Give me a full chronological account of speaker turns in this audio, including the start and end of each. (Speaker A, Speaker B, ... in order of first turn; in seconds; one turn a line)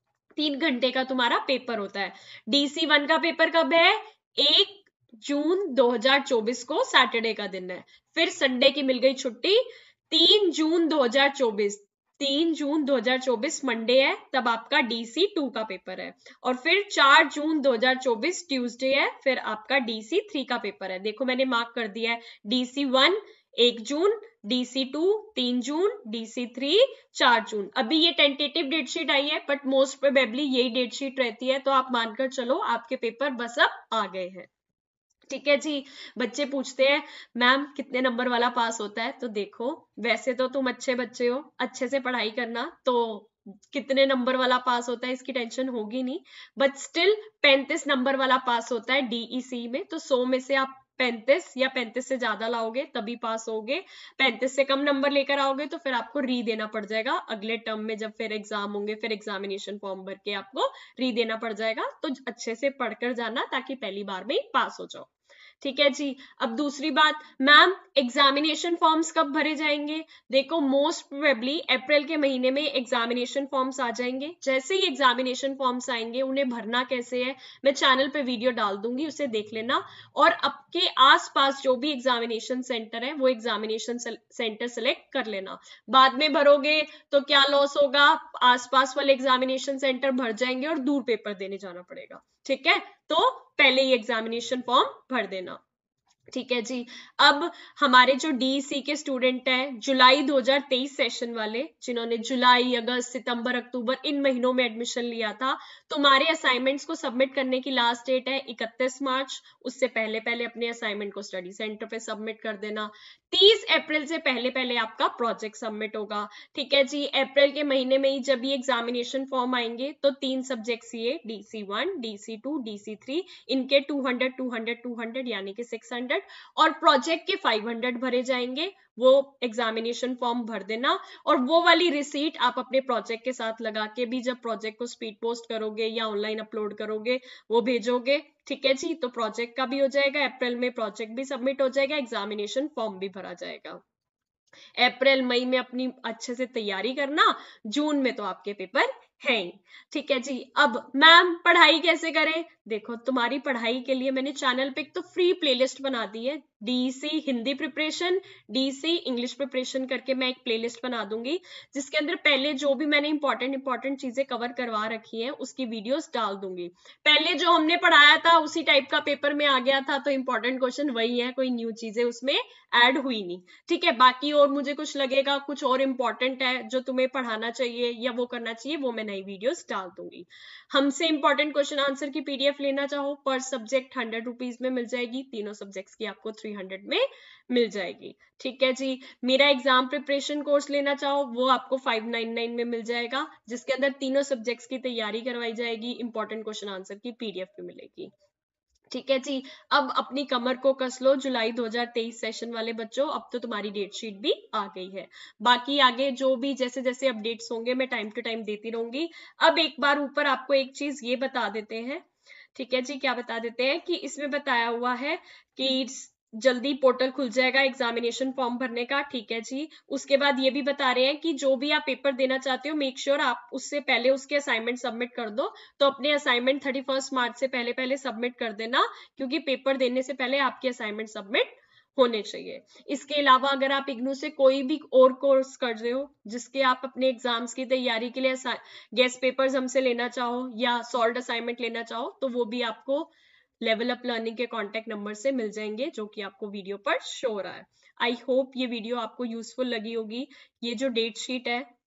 Speaker A: 0.4-34.5
Speaker A: 35.3-65.1
Speaker A: 65.6-95.6
Speaker A: 96.3-143.8
Speaker A: 144.8-198.1
Speaker A: 198.9-243.1
Speaker A: 243.6-251.7